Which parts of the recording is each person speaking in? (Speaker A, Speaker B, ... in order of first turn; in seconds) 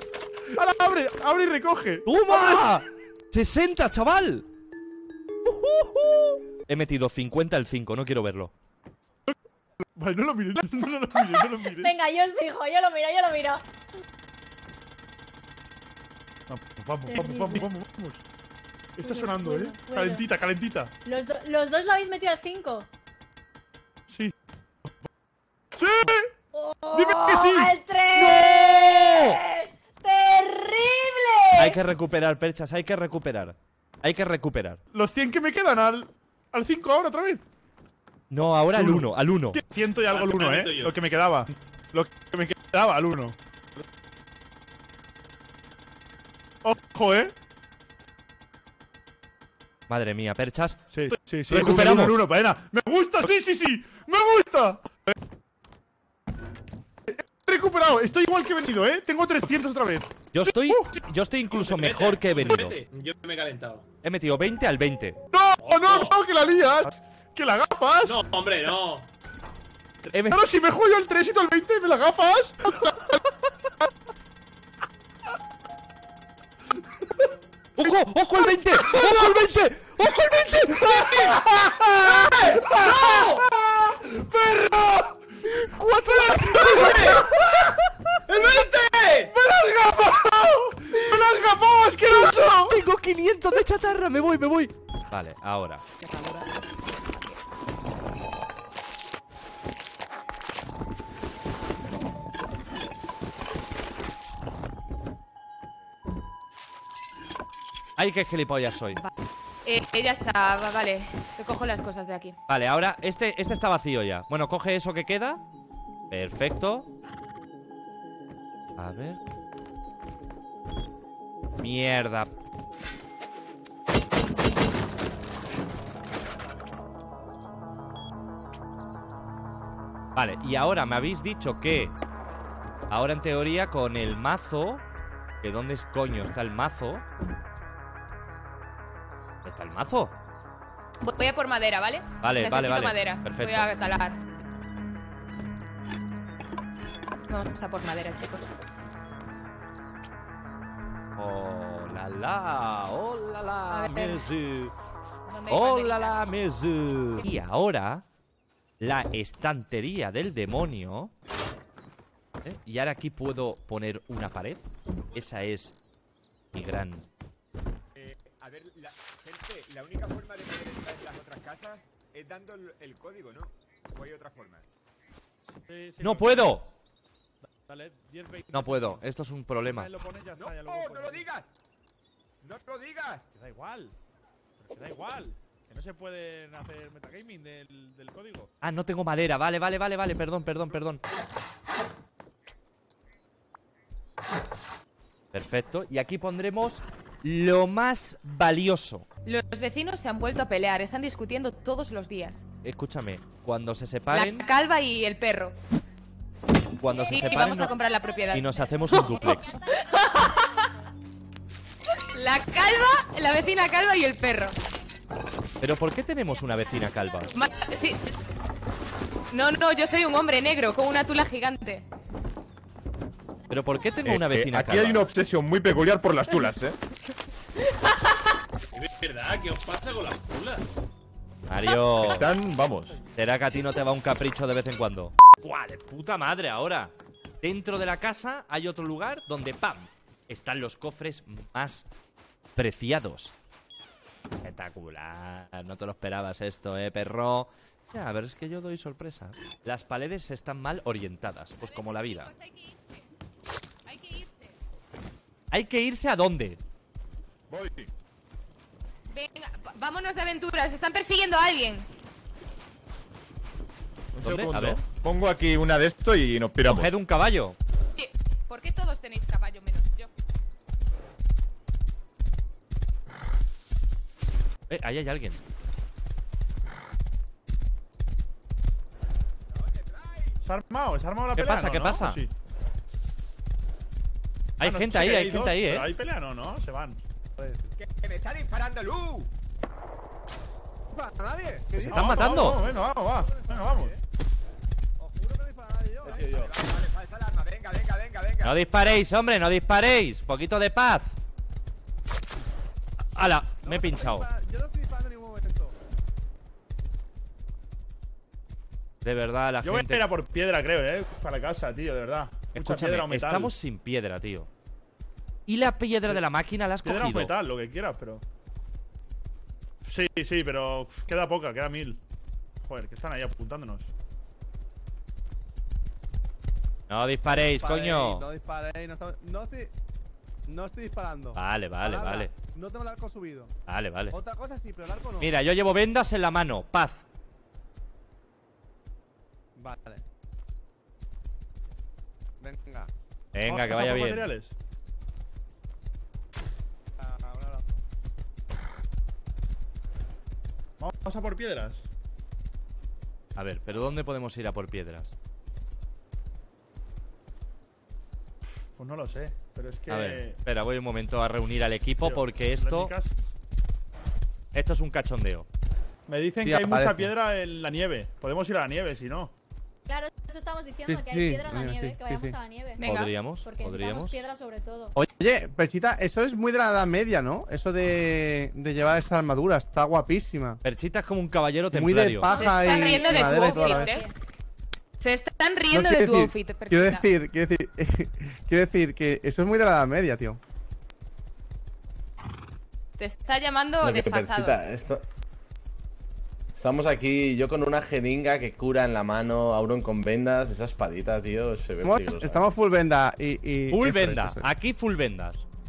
Speaker A: 0.5-2.7, 9.9-11.9, 16.5-18.2, 18.9-20.9, 25.8-26.3, 26.9-27.7, 34.9-37.4, 38.7-43.4, 46.6-47.3, 50.9-55.1, 57.1-61.0, 65.3-68.2, 70.1-73.9, 77.0-77.2, 78.9-79.3, 80.7-92.8, 175.7-176.6, 177.4-179.0, 179.6-181.3, 183.3-183.9, 184.6-188.5, 280.4-282.3, 284.6-287.0, 291.9-293.9, 309.6-313.5, 316.8-318.2, 319.8-322.0, 322.6-323.9, 343.4-344.5, 350.8-351.9, 358.8-360.4, 362.0-363.3, 366.1-369.3
Speaker B: 2.0-4.5, 5.4-8.5, 28.1-29.4, 31.6-34.8, 38.3-39.6, 49.9-50.8, 51.5-52.2, 60.3-62.8, 64.0-65.2, 70.1-70.4, 77.8-81.6, 92.0-95.8, 108.0-109.0, 112.5-115.4, 116.1-116.9, 118.8-119.2, 121.6-122.3, 130.1-131.9, 132.9-134.8, 135.4-137.0, 139.4-140.1, 142.2-143.7, 151.2-154.7, 155.5-158.0, 158.8-161.1, 162.4-165.7, 166.5-167.1, 176.0-176.7, 178.5-179.9, 188.6-191.0, 195.3-199.1, 202.6-204.5, 206.8-207.7, 208.3-209.6, 215.6-217.4, 223.5-225.1, 231.5-232.3, 233.2-241.8, 242.6-243.3, 244.4-252.3, 255.5-256.6, 264.2-264.8, 266.6-267.6, 274.7-275.4, 281.3-282.2, 284.6-285.9, 291.8-292.6, 298.4-301.2, 303.1-304.3, 309.0-310.1, 312.5-314.5, 315.5-317.3, 326.9-328.3, 331.3-332.3, 333.7-334.2, 335.2-337.0, 343.3-344.3, 353.4-355.1, 359.9-362.9, 364.5-365.4, 372.8-374.2, 380.6-382.3, 403.7-405.4
Speaker C: 11.6-13.6, 17.1-17.7, 19.0-20.2, 21.0-22.9, 26.5-31.8, 206.8-210.9, 216.2-218.0, 369.9-374.9, 382.3-384.1
Speaker D: 40.1-41.0, 61.5-63.9, 65.6-66.1, 68.0-69.1, 81.0-81.5, 82.0-83.4, 86.2-87.3, 88.3-89.3, 228.7-230.6
Speaker E: 96.0-96.5, 109.6-112.4, 141.0-144.2, 147.3-148.5, 153.7-154.2, 155.3-156.3, 199.2-202.4, 204.1-205.5, 206.9-210.7, 212.1-214.6, 217.3-218.3, 219.3-221.8, 227.8-228.1, 251.6-253.0, 253.8-254.6, 259.1-261.9, 267.9-270.1, 372.8-373.1, 382.3-384.1, 385.0-387.1, 393.0-394.6
Speaker F: 167.9-174.6, 180.4-181.5, 182.4-183.2, 279.5-280.4, 287.7-289.3, 296.2-298.6
Speaker G: 224.0-226.8, 232.0-233.0, 257.5-257.9, 264.2-266.9
Speaker H: 287.4-287.6, 290.9-294.0, 295.0-296.4, 303.6-305.7, 327.4-329.7, 330.5-333.5, 334.1-335.4, 339.6-340.0, 342.4-342.9, 347.0-347.8, 366.4-367.1, 370.9-372.3, 374.9-380.6, 381.7-384.0, 385.7-390.4, 401.8-404.5
Speaker I: 296.0-296.5, 393.8-395.0, 396.6-402.5